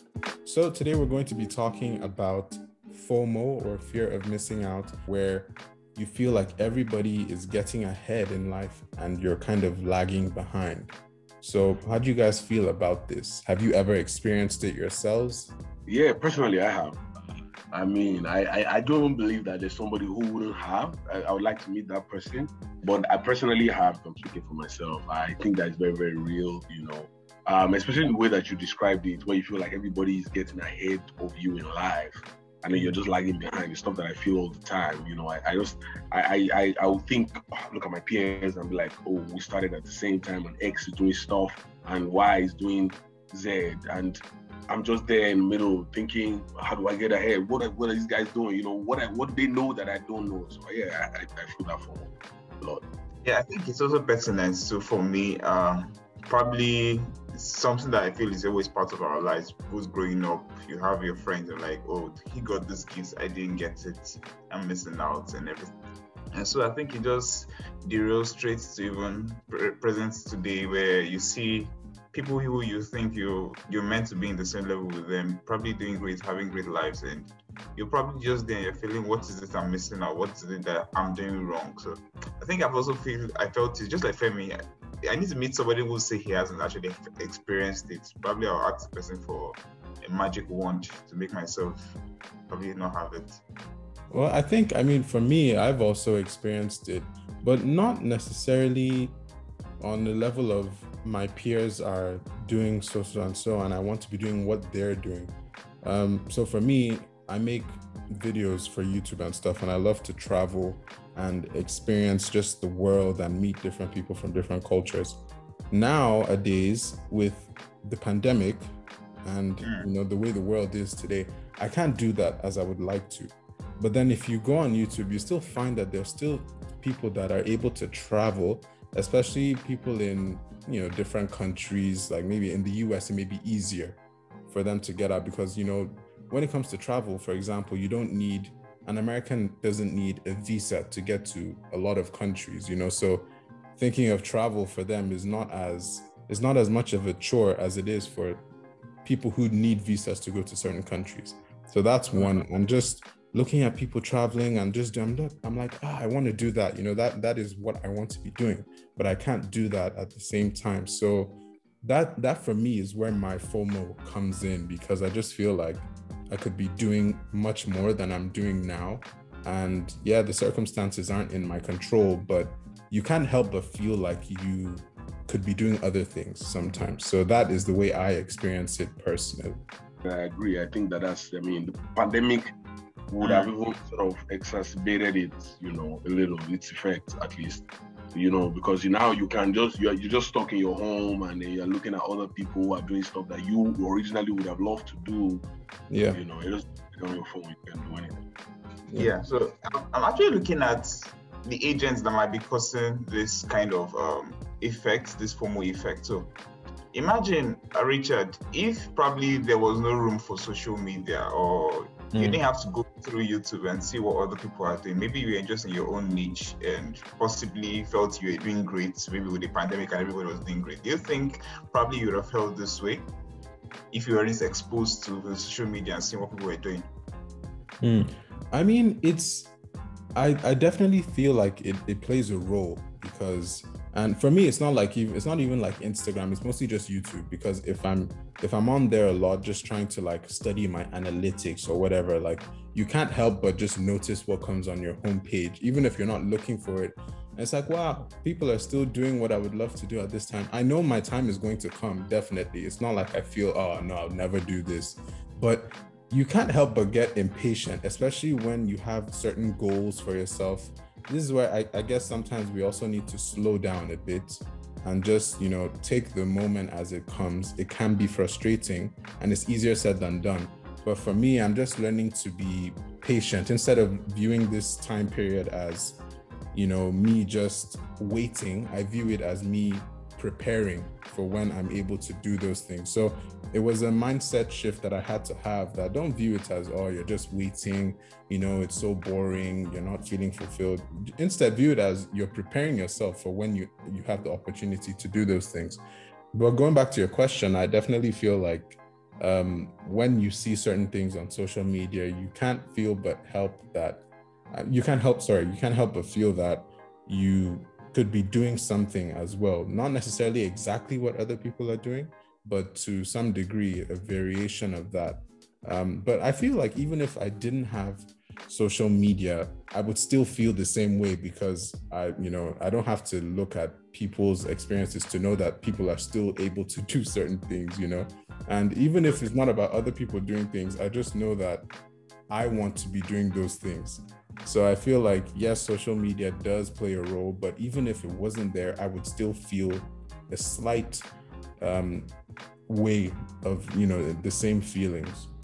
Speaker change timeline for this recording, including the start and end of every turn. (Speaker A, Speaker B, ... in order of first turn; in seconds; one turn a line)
Speaker A: 0.5-15.5
Speaker B: 15.9-52.8
Speaker C: 53.2-65.7
Speaker C: 66.3-92.0
Speaker C: 92.5-93.4
Speaker A: 94.1-99.2
Speaker A: 99.8-118.7
Speaker A: 119.2-148.4
Speaker C: 119.6-119.9
Speaker A: 149.0-179.6
Speaker B: 180.0-182.5
Speaker B: 183.1-195.4
Speaker C: 183.2-183.5
Speaker A: 195.9-196.2
Speaker B: 196.1-198.2
Speaker A: 198.9-199.1
Speaker C: 198.9-206.3
Speaker C: 206.9-223.1
Speaker A: 212.1-212.4
Speaker C: 223.9-226.9
Speaker A: 227.8-229.5
Speaker A: 230.2-276.0
Speaker A: 276.5-295.8
Speaker A: 296.3-331.7
Speaker A: 332.3-341.1
Speaker A: 341.6-342.1
Speaker A: 342.7-345.3